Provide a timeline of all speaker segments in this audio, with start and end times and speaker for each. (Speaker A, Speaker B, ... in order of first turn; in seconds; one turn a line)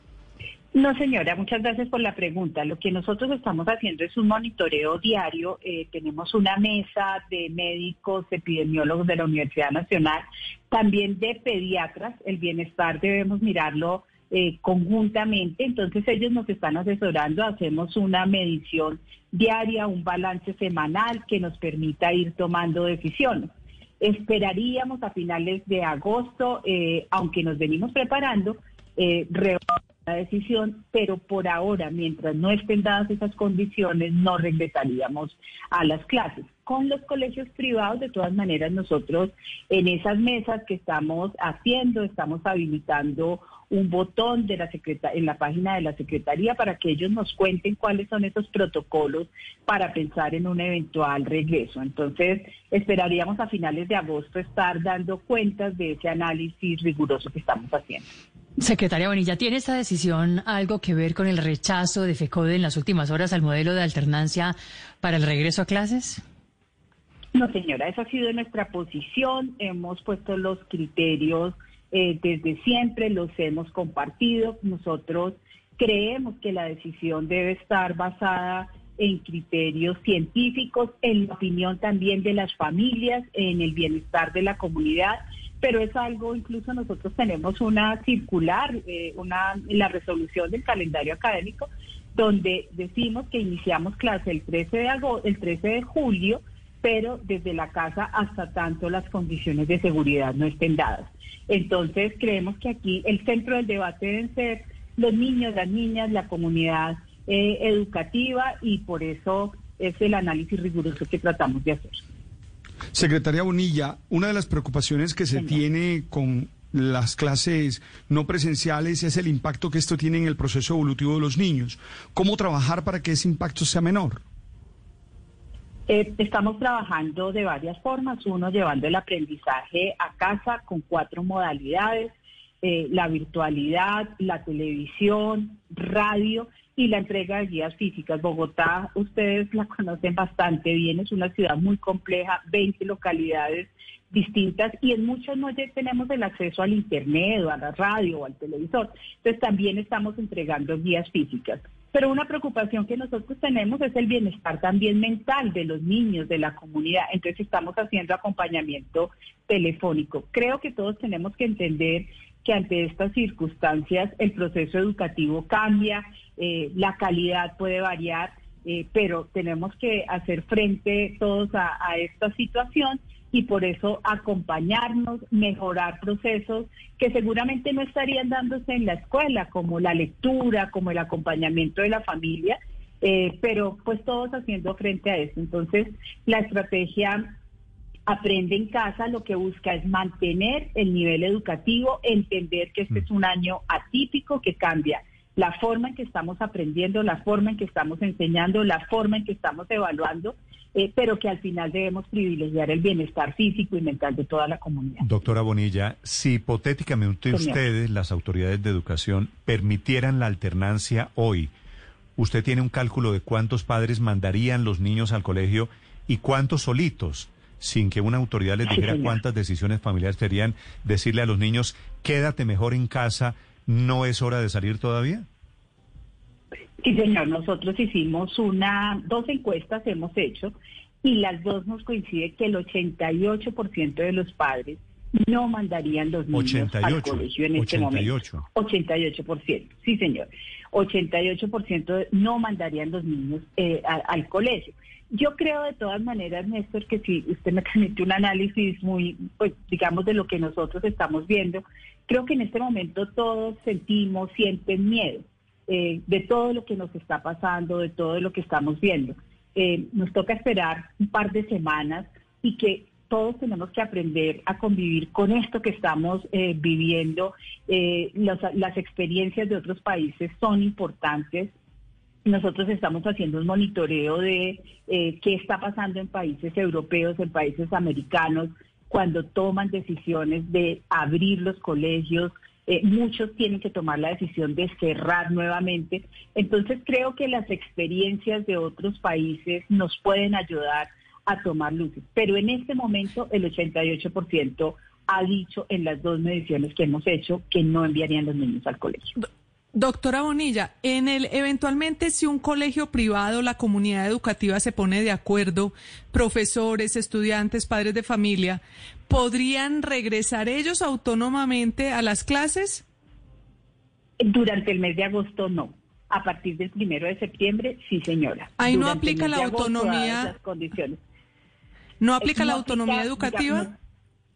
Speaker A: 0.7-58.1
Speaker B: 58.6-66.2
Speaker A: 67.3-112.0
Speaker C: 112.9-124.2
Speaker A: 125.9-187.3
Speaker A: 188.1-205.0
Speaker D: 205.0-211.5
Speaker A: 207.3-207.6
Speaker D: 212.2-225.3
Speaker A: 218.7-219.2
Speaker A: 226.8-271.5
Speaker D: 236.3-238.4
Speaker A: 272.3-299.1
Speaker E: 299.7-312.8
Speaker A: 314.2-321.0
Speaker E: 318.6-320.3
Speaker E: 322.0-323.7
Speaker A: 322.2-323.7